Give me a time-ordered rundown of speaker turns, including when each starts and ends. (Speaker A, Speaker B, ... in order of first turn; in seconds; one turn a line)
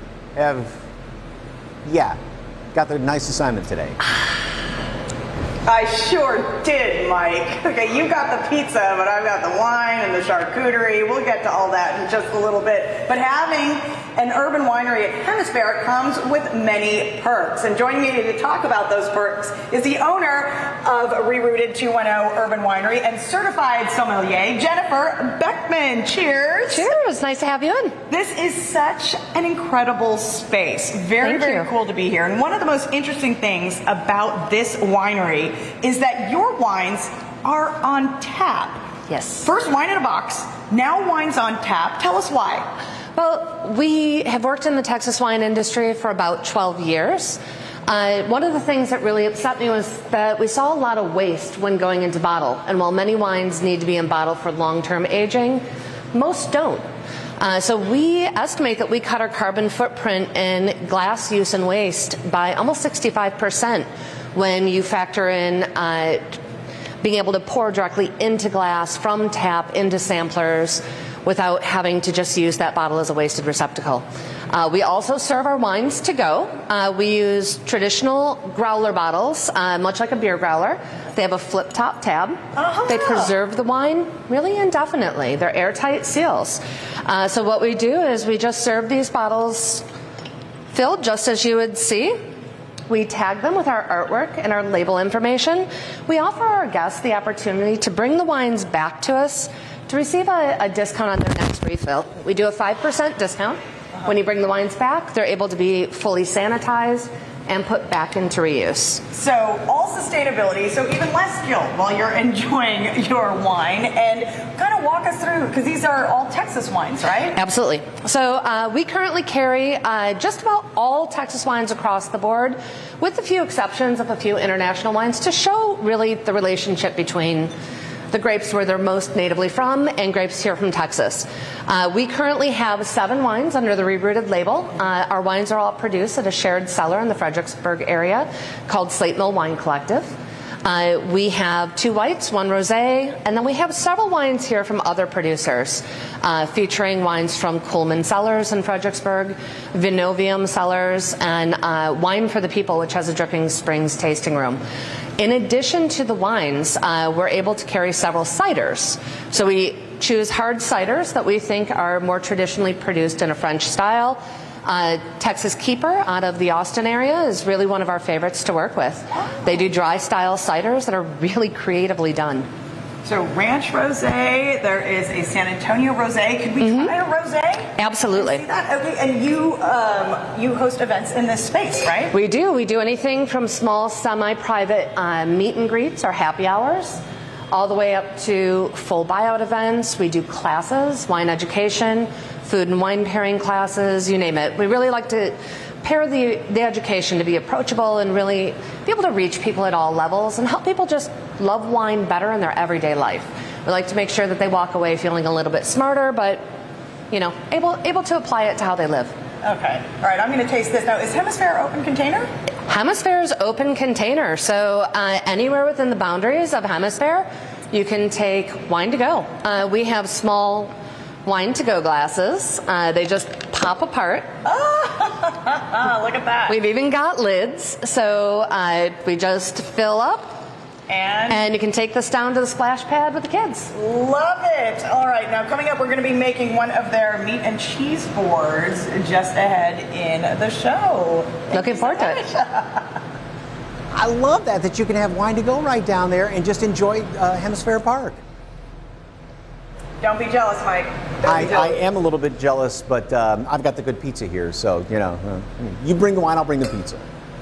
Speaker A: 0.4-0.8
Speaker A: 1.9-2.2
Speaker A: 2.7-4.0
Speaker B: 5.7-26.9
Speaker C: 26.7-28.0
Speaker B: 28.1-38.8
Speaker C: 31.2-31.7
Speaker C: 39.1-39.5
Speaker B: 39.4-42.7
Speaker C: 43.2-56.8
Speaker C: 57.4-66.4
Speaker C: 67.0-89.8
Speaker B: 82.6-83.3
Speaker C: 90.7-92.2
Speaker C: 92.9-109.0
Speaker B: 109.1-117.4
Speaker C: 117.3-127.5
Speaker C: 128.1-140.1
Speaker C: 140.6-154.6
Speaker C: 155.2-172.5
Speaker B: 173.1-182.1
Speaker C: 176.6-176.9
Speaker C: 177.8-178.4
Speaker C: 182.1-206.4
Speaker C: 207.1-209.1
Speaker B: 209.4-212.3
Speaker C: 212.7-220.7
Speaker C: 221.2-224.3
Speaker B: 224.4-226.6
Speaker C: 226.5-230.3
Speaker B: 230.9-231.5
Speaker C: 231.3-233.7
Speaker B: 233.7-242.9
Speaker C: 241.5-242.2
Speaker A: 243.9-248.2
Speaker B: 250.0-251.8
Speaker A: 251.2-257.1